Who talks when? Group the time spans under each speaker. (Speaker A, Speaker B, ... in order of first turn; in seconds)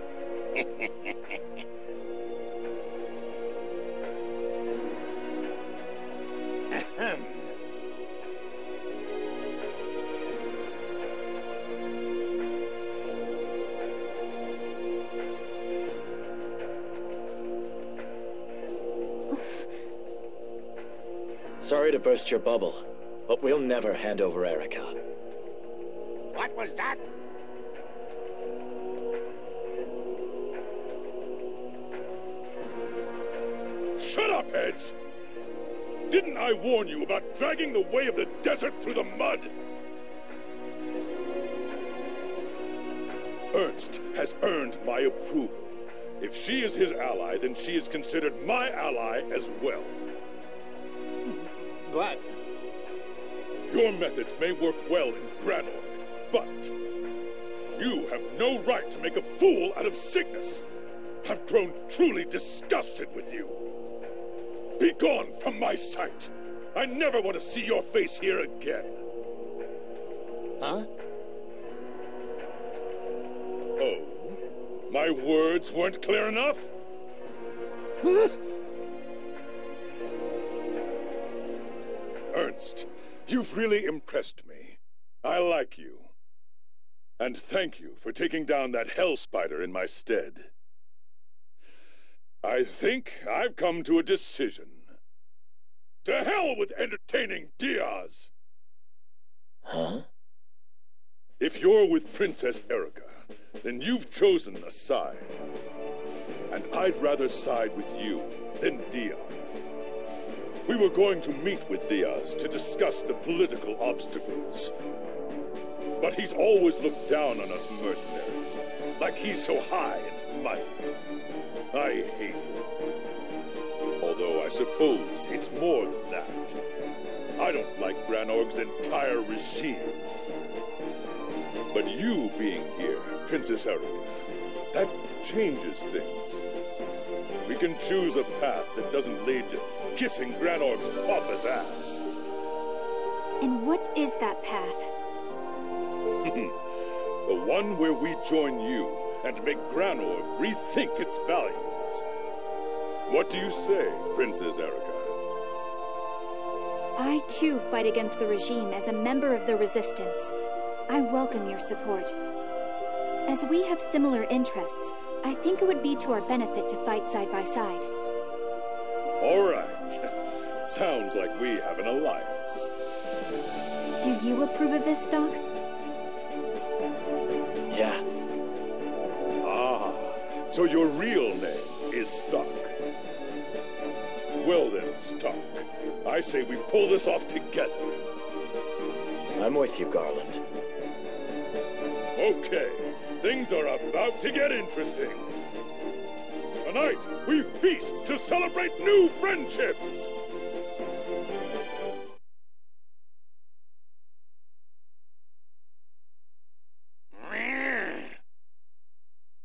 Speaker A: 6.7-7.5, 26.3-27.0, 51.9-52.2, 70.6-70.9
Speaker B: 21.6-25.0, 99.7-100.1, 177.7-178.1, 189.4-190.4
Speaker C: 34.0-35.0, 36.1-39.5, 43.5-50.0, 53.7-56.7, 57.8-60.7, 61.2-63.6, 64.8-69.0, 73.8-76.7, 78.0-78.3, 82.3-86.1, 87.2-90.5, 92.4-94.8, 96.0-98.3, 101.4-105.3, 106.5-109.6, 110.7-114.7, 116.0-120.8, 121.7-122.6, 124.0-126.6, 127.4-130.0, 131.7-136.4, 137.5-142.1, 146.2-146.6, 147.3-152.0, 153.1-155.1, 169.2-172.7, 179.4-182.7, 184.4-188.0, 192.2-195.3, 196.6-200.1
Speaker D: 143.4-144.9, 157.0-160.3, 160.9-162.2, 163.3-167.9, 174.0-175.4